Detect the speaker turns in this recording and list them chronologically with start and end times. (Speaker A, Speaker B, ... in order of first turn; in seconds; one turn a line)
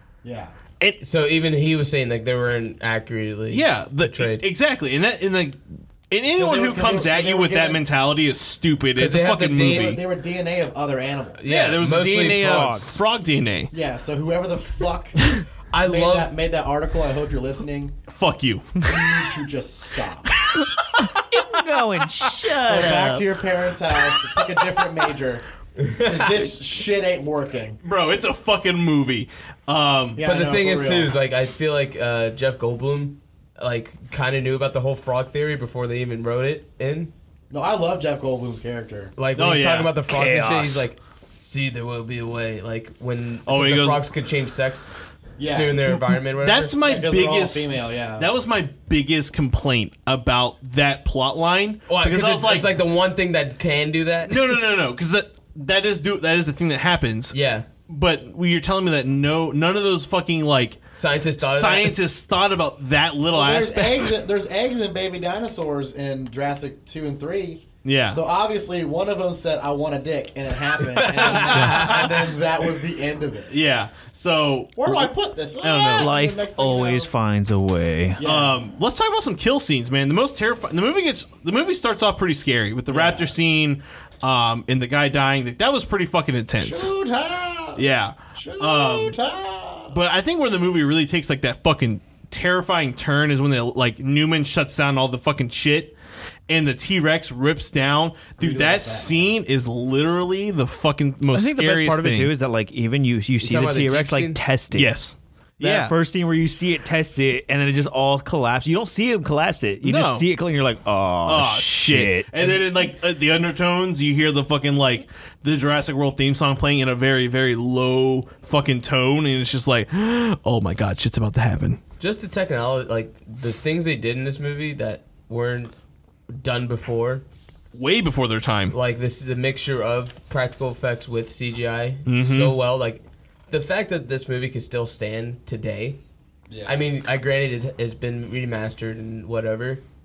Speaker A: 0.2-0.5
Speaker B: 1.0-4.5
Speaker C: 3.5-5.6
Speaker C: 6.1-10.0
Speaker A: 6.4-7.8
Speaker B: 9.0-10.0
Speaker A: 9.6-11.4
Speaker B: 11.4-12.8
Speaker C: 11.4-13.7
Speaker D: 12.4-13.0
Speaker A: 13.7-15.2
Speaker B: 15.7-16.3
Speaker A: 15.8-17.9
Speaker C: 18.1-19.3
Speaker A: 18.8-20.3
Speaker C: 20.5-21.1
Speaker D: 21.0-23.3
Speaker A: 22.6-25.4
Speaker B: 25.8-26.4
Speaker A: 26.0-27.8
Speaker C: 27.8-30.2
Speaker A: 30.2-31.1
Speaker B: 30.2-37.1
Speaker A: 37.5-39.1
Speaker B: 39.2-44.9
Speaker C: 39.4-40.0
Speaker D: 40.1-40.9
Speaker C: 43.5-44.1
Speaker A: 45.4-45.8
Speaker B: 45.5-46.7
Speaker C: 46.4-52.8
Speaker A: 46.8-48.3
Speaker B: 51.9-54.4
Speaker C: 54.3-57.4
Speaker B: 57.3-57.7
Speaker C: 57.9-64.1
Speaker B: 61.0-61.9
Speaker A: 63.3-73.5
Speaker C: 67.8-68.2
Speaker B: 70.8-72.2
Speaker C: 71.1-72.1
Speaker C: 73.5-75.1
Speaker A: 74.8-77.1
Speaker C: 75.6-76.1
Speaker D: 75.9-78.2
Speaker A: 78.2-78.6
Speaker C: 78.2-86.9
Speaker A: 82.9-83.3
Speaker A: 86.6-87.8
Speaker C: 87.8-89.2
Speaker A: 88.3-90.0
Speaker C: 89.9-96.0
Speaker C: 96.5-102.3
Speaker A: 98.4-99.3
Speaker D: 101.3-104.9
Speaker B: 103.4-104.4
Speaker C: 104.7-106.0
Speaker D: 105.6-112.3
Speaker C: 109.8-110.3
Speaker C: 111.2-121.8
Speaker B: 122.0-125.7
Speaker B: 126.3-127.2
Speaker C: 127.7-128.8
Speaker B: 128.7-136.0
Speaker C: 132.1-132.6
Speaker A: 136.5-136.8
Speaker B: 136.7-139.8